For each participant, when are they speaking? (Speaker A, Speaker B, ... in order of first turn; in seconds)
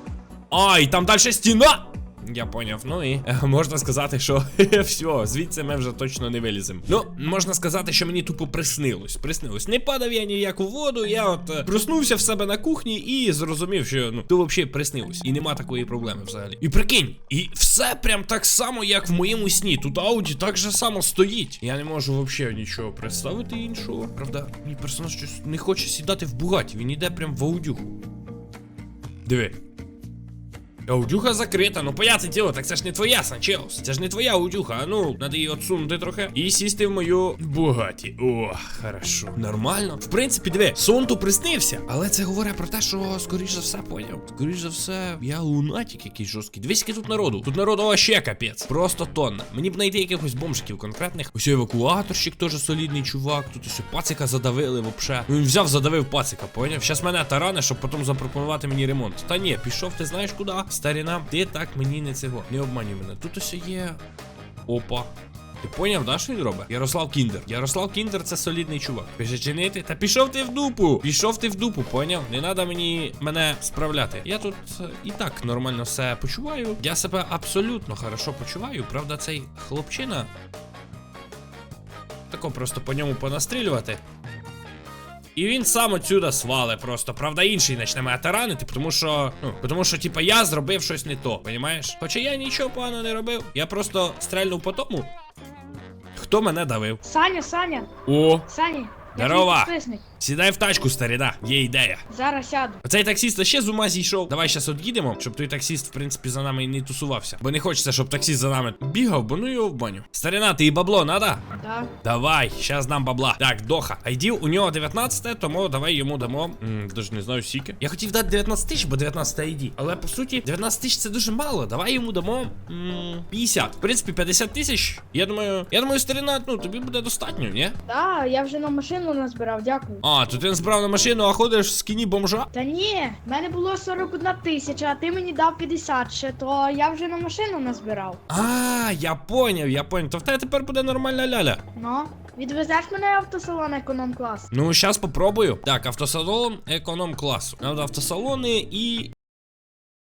Speaker A: 0.5-28.0, 29.2-29.6, 30.9-64.0, 64.7-80.3, 82.3-84.0, 85.3-95.1, 96.2-97.0, 98.0-98.5, 99.2-102.0, 102.8-111.4, 112.0-127.8, 130.0-132.5, 138.3-141.6, 144.5-149.1
Speaker B: 97.0-97.9, 98.5-100.0, 102.1-102.8, 111.5-111.9, 127.8-130.0, 132.5-138.2, 141.8-144.5